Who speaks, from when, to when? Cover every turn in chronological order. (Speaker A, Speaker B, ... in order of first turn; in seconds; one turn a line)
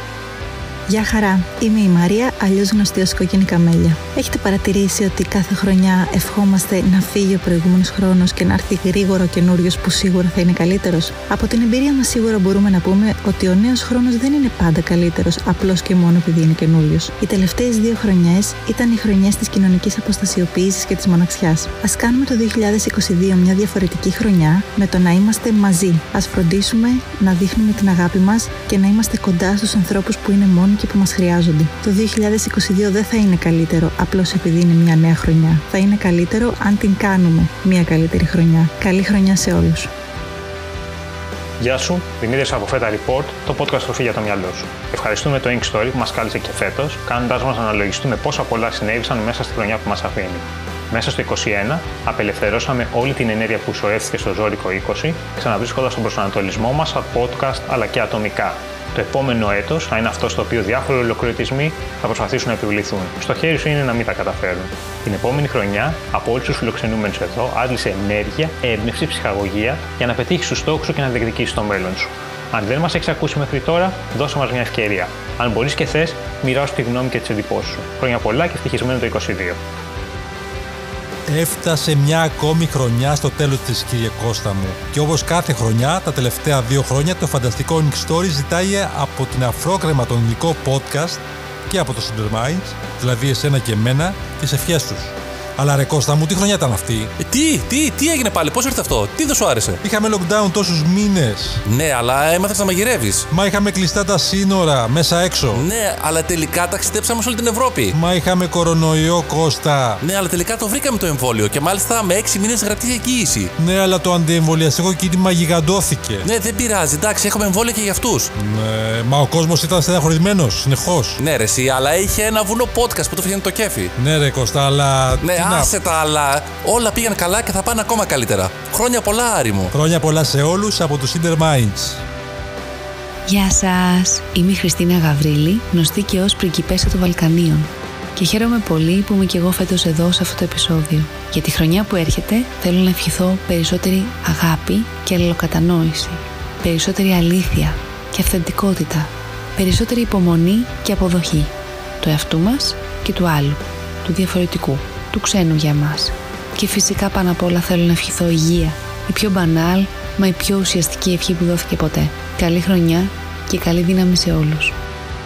Speaker A: 0.9-39.9
Speaker B: 41.6-79.6
Speaker C: 81.3-97.1
Speaker D: 97.2-99.8
Speaker C: 99.8-101.6
Speaker D: 101.7-103.2
Speaker C: 103.3-105.6
Speaker D: 105.5-108.0
Speaker C: 107.9-110.0
Speaker D: 110.0-113.5
Speaker C: 113.6-116.3
Speaker D: 116.2-118.3
Speaker C: 118.4-121.2
Speaker D: 121.2-123.9
Speaker C: 124.0-125.7
Speaker D: 125.2-129.7
Speaker C: 129.7-132.0
Speaker E: 133.3-151.5
Speaker E: 152.0-164.7